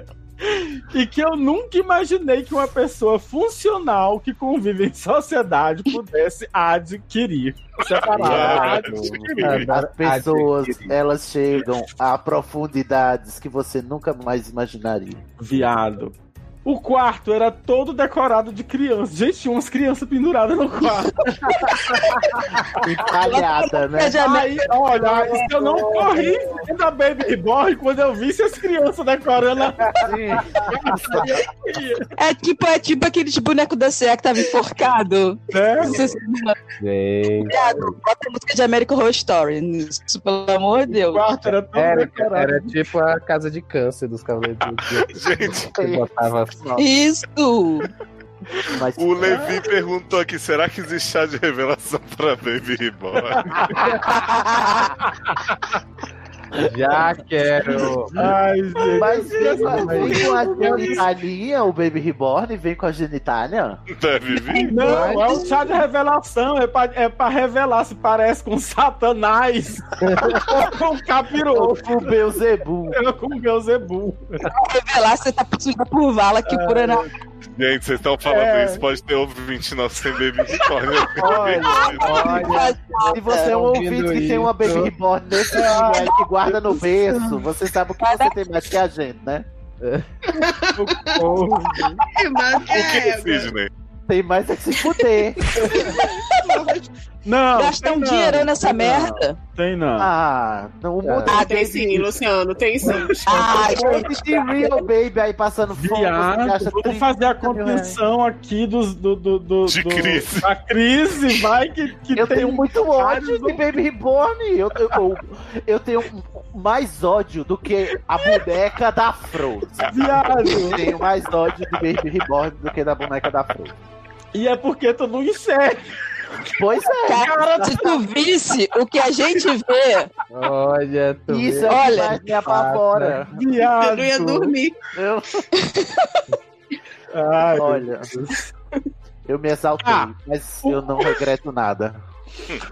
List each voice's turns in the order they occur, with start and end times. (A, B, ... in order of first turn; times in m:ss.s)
0:00.4-0:09.6 A
0:07.9-0:09.7 B
0:08.1-0:10.9 C
0:08.3-0:08.6 D
0:09.4-0:15.2 D
0:15.4-0:22.1 A
0:21.7-0:22.4 E
0:22.7-0:24.2 D
0:23.2-0:26.2 E
0:24.2-0:30.0 A
0:30.0-0:31.3 D
0:30.5-0:32.0 A
0:32.2-0:36.6 E
0:35.5-0:36.1 A
0:36.8-0:38.0 C
0:37.5-0:41.3 E
0:40.9-0:42.8 A
0:41.7-0:46.8 C
0:45.1-0:45.7 B
0:45.8-0:46.1 D
0:46.8-0:47.8 E
0:48.7-0:49.6 D
0:49.0-0:53.7 B
0:53.4-0:53.9 A
0:54.2-0:54.9 D
0:56.6-0:58.1 C
0:58.1-1:01.0 A
0:58.8-1:01.1 F
0:58.9-1:03.8 D
0:59.5-1:00.9 C
1:03.9-1:04.8 B
1:04.6-1:11.9 A
1:04.8-1:05.4 C
1:10.0-1:10.5 C
1:11.5-1:13.0 D
1:12.9-1:14.4 A
1:14.5-1:17.0 E
1:16.4-1:17.1 A
1:17.6-1:22.2 B
1:18.2-1:18.8 A
1:21.2-1:29.4 D
1:21.3-1:21.8 A
1:21.6-1:23.6 E
1:22.0-1:24.9 C
1:25.5-1:26.5 A
1:28.0-1:28.3 E
1:30.3-1:31.2 F
1:30.7-1:32.0 A
1:31.2-1:31.6 C
1:32.0-1:33.5 F
1:32.7-1:33.7 B
1:34.1-1:35.4 D
1:35.9-1:36.8 F
1:37.2-1:40.1 A
1:37.5-1:39.4 E
1:40.0-1:42.1 D
1:41.0-1:41.3 C
1:41.3-1:41.8 E
1:41.3-1:43.6 F
1:42.8-1:43.8 A
1:43.2-1:44.2 E
1:43.4-1:48.0 D
1:45.7-1:53.6 A
1:49.7-1:50.5 B
1:52.1-2:03.7 D
1:59.9-2:00.8 A
2:04.3-2:05.9 A
2:06.5-2:07.7 D
2:07.0-2:10.1 E
2:07.1-2:08.0 A
2:10.3-2:13.2 C
2:11.3-2:13.4 D
2:11.7-2:12.2 E
2:13.4-2:14.5 A
2:13.7-2:14.8 F
2:14.9-2:15.4 D
2:15.6-2:16.2 E
2:17.1-2:18.4 A
2:17.6-2:18.1 D
2:19.2-2:22.0 D
2:19.8-2:20.1 A
2:20.6-2:21.0 A